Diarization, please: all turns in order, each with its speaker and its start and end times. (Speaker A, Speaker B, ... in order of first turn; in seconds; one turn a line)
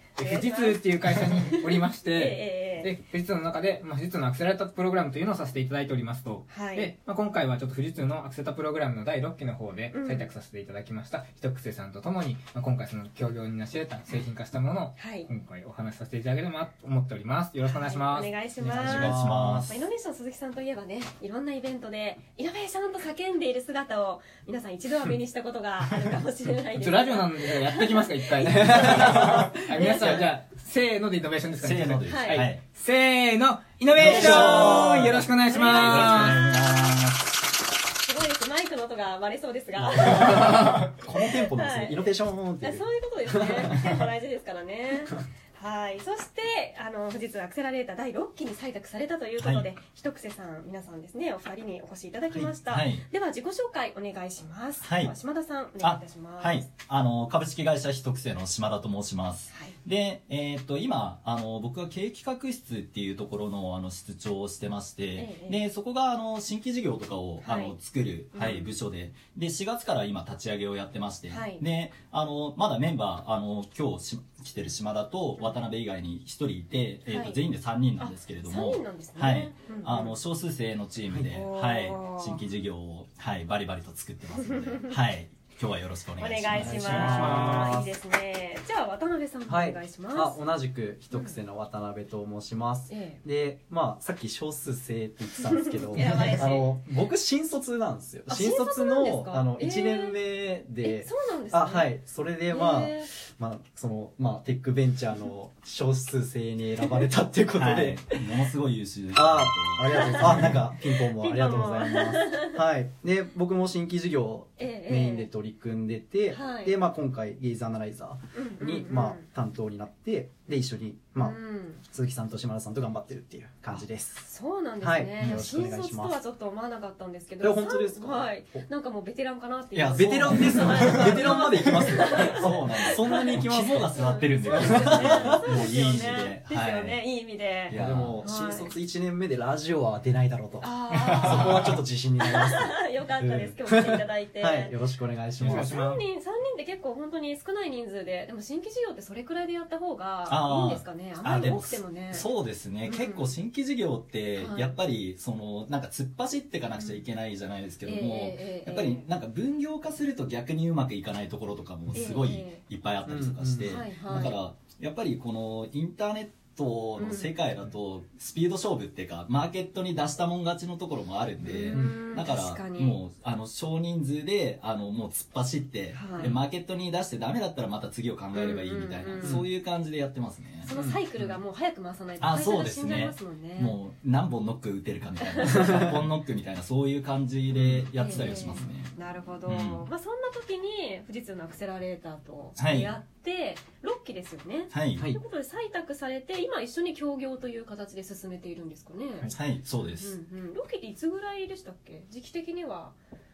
Speaker A: 0.2-2.9
Speaker B: 0.2-18.9
Speaker A: 6.5-6.9
Speaker A: 9.9-10.3
Speaker A: 14.9-15.3
Speaker A: 17.6-30.3
Speaker C: 18.7-19.8
Speaker D: 18.7-19.8
Speaker B: 26.7-36.4
Speaker C: 31.6-32.6
Speaker A: 32.0-32.5
Speaker C: 33.9-37.2
Speaker A: 34.0-37.0
Speaker A: 38.0-56.6
Speaker D: 39.9-43.9
Speaker C: 49.4-49.7
Speaker C: 52.6-53.0
Speaker C: 54.8-55.1
Speaker C: 55.8-87.3
Speaker A: 59.5-59.8
Speaker A: 65.1-65.6
Speaker A: 67.4-67.7
Speaker A: 68.3-68.7
Speaker A: 71.3-71.6
Speaker A: 77.1-77.4
Speaker A: 78.0-80.2
Speaker D: 81.1-81.4
Speaker A: 81.3-82.4
Speaker A: 84.3-84.9
Speaker A: 86.2-90.4
Speaker D: 86.5-87.9
Speaker B: 86.7-87.8
Speaker D: 89.5-108.2
Speaker A: 91.1-91.4
Speaker A: 92.9-93.2
Speaker A: 95.9-96.7
Speaker A: 98.3-100.2
Speaker A: 100.8-101.9
Speaker A: 102.5-103.1
Speaker C: 107.5-110.6
Speaker D: 109.1-124.2
Speaker A: 109.9-112.6
Speaker A: 114.6-115.3
Speaker A: 116.3-116.7
Speaker A: 118.3-119.2
Speaker A: 121.2-121.8
Speaker A: 124.2-138.7
Speaker D: 124.8-126.2
Speaker C: 125.2-125.5
Speaker D: 127.4-128.7
Speaker C: 129.7-137.0
Speaker D: 129.9-135.7
Speaker C: 137.7-138.2
Speaker D: 137.7-145.7
Speaker A: 140.6-144.8
Speaker C: 140.9-141.8
Speaker B: 145.4-146.0
Speaker A: 145.4-152.3
Speaker C: 150.3-181.4
Speaker A: 152.8-153.3
Speaker A: 154.4-154.8
Speaker A: 156.7-157.0
Speaker A: 157.8-159.0
Speaker A: 161.9-162.6
Speaker D: 163.1-163.8
Speaker A: 163.6-164.4
Speaker A: 167.0-167.3
Speaker A: 171.4-173.0
Speaker D: 171.7-172.0
Speaker A: 175.9-176.3
Speaker A: 178.3-179.4
Speaker A: 180.6-183.8
Speaker D: 180.7-181.0
Speaker C: 182.2-188.9
Speaker A: 185.2-185.8
Speaker D: 187.5-187.9
Speaker A: 187.9-199.3
Speaker C: 189.5-189.8
Speaker C: 192.6-192.9
Speaker C: 194.7-195.1
Speaker C: 199.3-200.2
Speaker A: 199.8-202.9